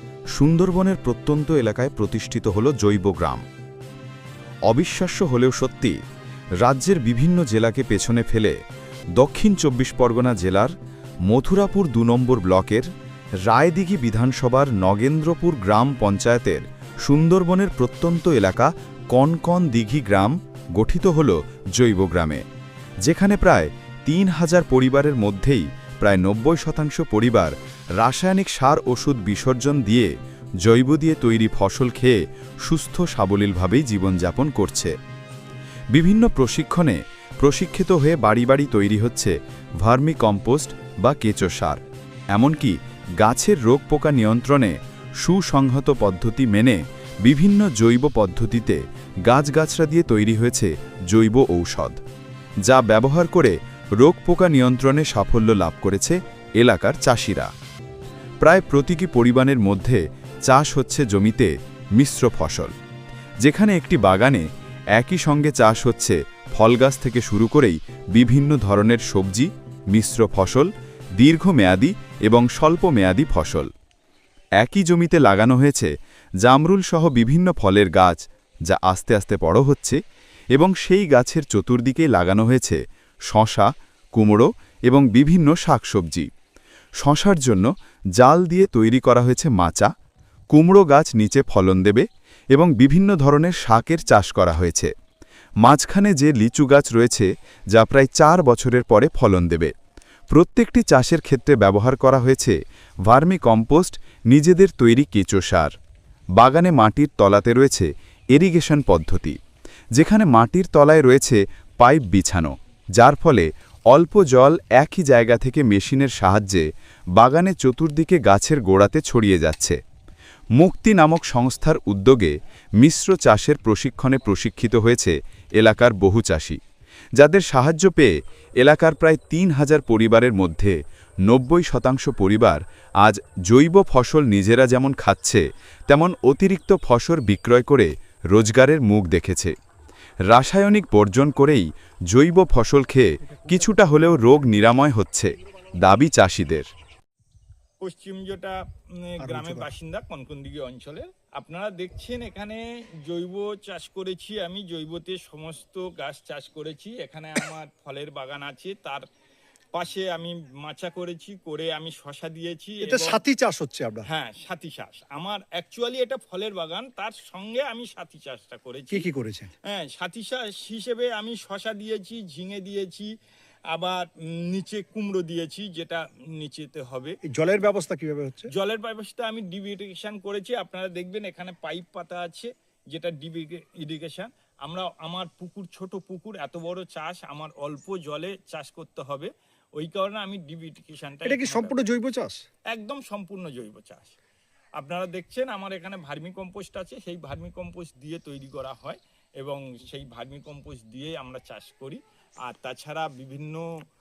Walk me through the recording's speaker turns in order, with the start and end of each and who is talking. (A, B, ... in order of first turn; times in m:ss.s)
0:00.4-0:03.4 A
0:04.7-0:06.0 A
0:06.6-0:08.6 A
0:09.2-0:10.7 A
0:11.3-0:12.9 A
0:13.5-0:22.4 A
0:23.0-0:34.9 A
0:35.9-0:41.8 A
0:42.3-0:52.0 A
0:52.7-0:57.5 A
0:58.4-1:02.7 A
1:03.4-1:13.7 A
1:14.6-1:15.9 A
1:16.4-1:20.0 A
1:20.5-1:26.3 A
1:27.0-1:29.9 A
1:30.5-1:34.9 A
1:35.6-1:39.7 A
1:40.3-1:42.6 A
1:43.1-1:45.7 A
1:46.4-1:49.4 A
1:50.0-1:59.8 A
2:00.6-2:06.6 A
2:07.2-2:10.8 A
2:11.3-2:19.5 A
2:20.3-2:26.7 A
2:27.8-2:39.1 B
2:29.2-2:29.7 C
2:39.7-2:43.2 B
2:42.8-2:44.1 C
2:44.0-2:49.1 B
2:48.9-2:49.5 C
2:49.6-2:53.1 B
2:53.7-2:57.2 B
2:57.2-2:58.5 C
2:58.5-3:11.8 B
3:11.2-3:12.4 C
3:12.7-3:14.2 B
3:14.8-3:23.7 B